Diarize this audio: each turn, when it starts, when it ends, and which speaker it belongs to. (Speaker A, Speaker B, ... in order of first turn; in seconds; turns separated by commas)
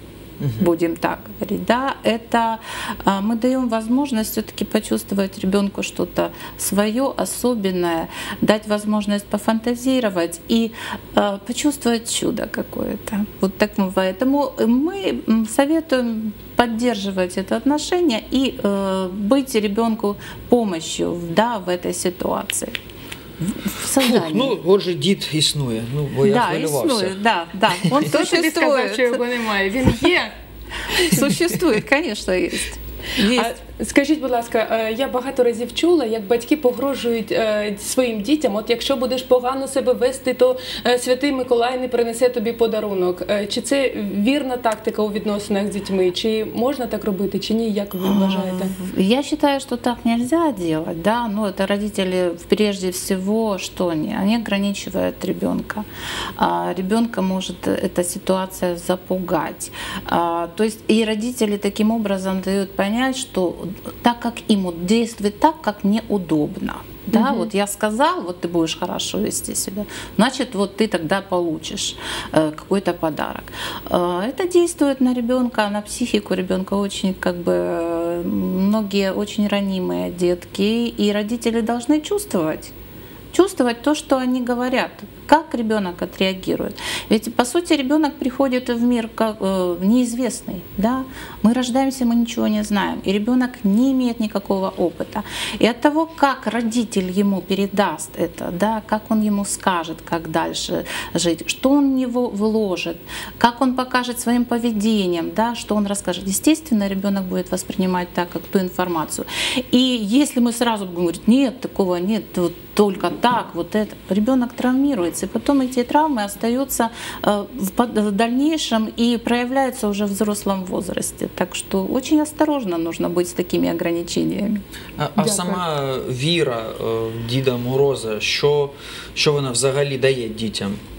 Speaker A: 0.4-0.7, Speaker B: 0.6-22.8, Speaker B: 23.4-24.6, Speaker A: 24.0-27.2, Speaker B: 26.2-29.2, Speaker C: 28.0-30.3, Speaker C: 30.9-31.3, Speaker B: 31.1-33.5, Speaker C: 33.2-48.7, Speaker B: 48.0-55.9, Speaker B: 56.4-82.7, Speaker C: 67.1-67.5, Speaker B: 83.3-124.6, Speaker A: 125.0-130.8, Speaker C: 125.2-125.6